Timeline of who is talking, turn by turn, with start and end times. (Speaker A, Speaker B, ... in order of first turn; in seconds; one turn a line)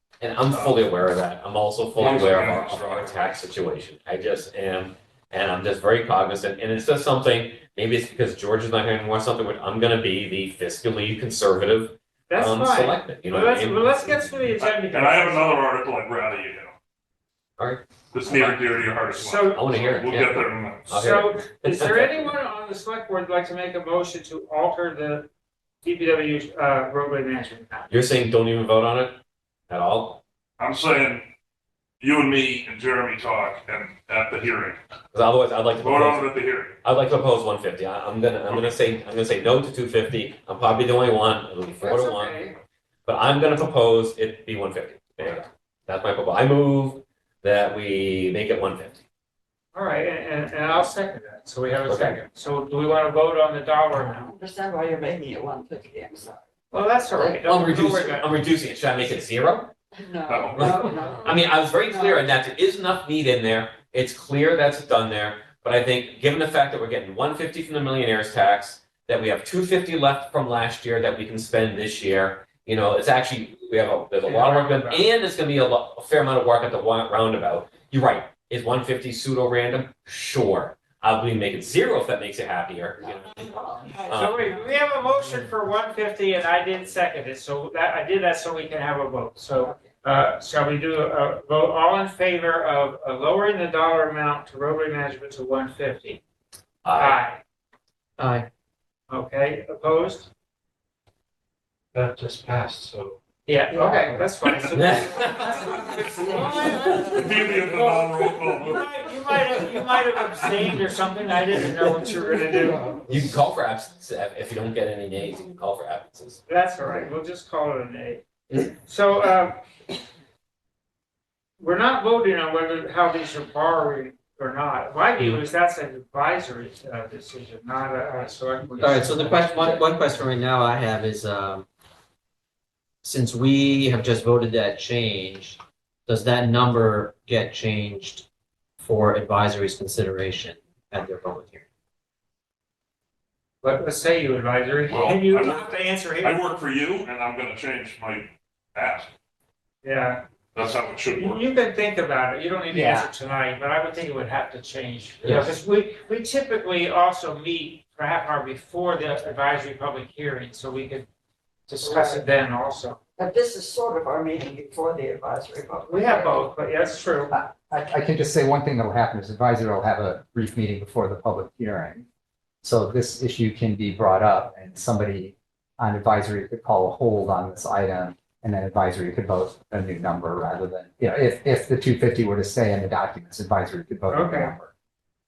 Speaker A: 0.2-14.5
Speaker B: 0.5-0.9
Speaker B: 1.9-3.1
Speaker C: 12.3-15.6
Speaker B: 14.6-16.7
Speaker A: 17.6-18.9
Speaker B: 18.1-20.9
Speaker C: 19.1-19.8
Speaker A: 19.4-22.3
Speaker C: 20.9-25.3
Speaker C: 25.8-27.9
Speaker A: 27.9-29.2
Speaker A: 29.7-30.2
Speaker B: 30.6-31.3
Speaker B: 32.0-34.8
Speaker A: 35.1-42.5
Speaker B: 35.8-36.8
Speaker C: 41.8-42.6
Speaker A: 43.1-49.0
Speaker C: 49.7-54.3
Speaker A: 51.9-52.2
Speaker D: 54.0-56.4
Speaker C: 56.7-58.3
Speaker A: 57.4-59.7
Speaker D: 60.0-62.2
Speaker B: 60.3-61.1
Speaker A: 60.5-83.5
Speaker C: 74.2-75.1
Speaker D: 83.0-84.1
Speaker A: 84.0-84.6
Speaker C: 84.1-96.2
Speaker A: 96.8-97.2
Speaker C: 97.0-97.4
Speaker C: 99.1-100.3
Speaker E: 101.9-103.2
Speaker C: 103.5-112.9
Speaker E: 103.7-104.7
Speaker A: 104.7-105.6
Speaker B: 107.1-108.9
Speaker E: 112.5-113.3
Speaker A: 113.1-116.4
Speaker C: 116.5-119.6
Speaker C: 121.6-129.4
Speaker F: 128.8-131.7
Speaker F: 133.0-138.2
Speaker F: 138.8-141.6
Speaker C: 143.6-146.4
Speaker B: 144.9-149.1
Speaker C: 149.8-150.2
Speaker B: 150.5-151.4
Speaker C: 151.1-161.1
Speaker G: 152.7-153.1
Speaker C: 161.7-163.0
Speaker D: 161.8-162.2
Speaker D: 163.2-166.4
Speaker C: 165.9-167.3
Speaker G: 167.3-172.1
Speaker G: 172.6-184.7
Speaker C: 184.1-184.5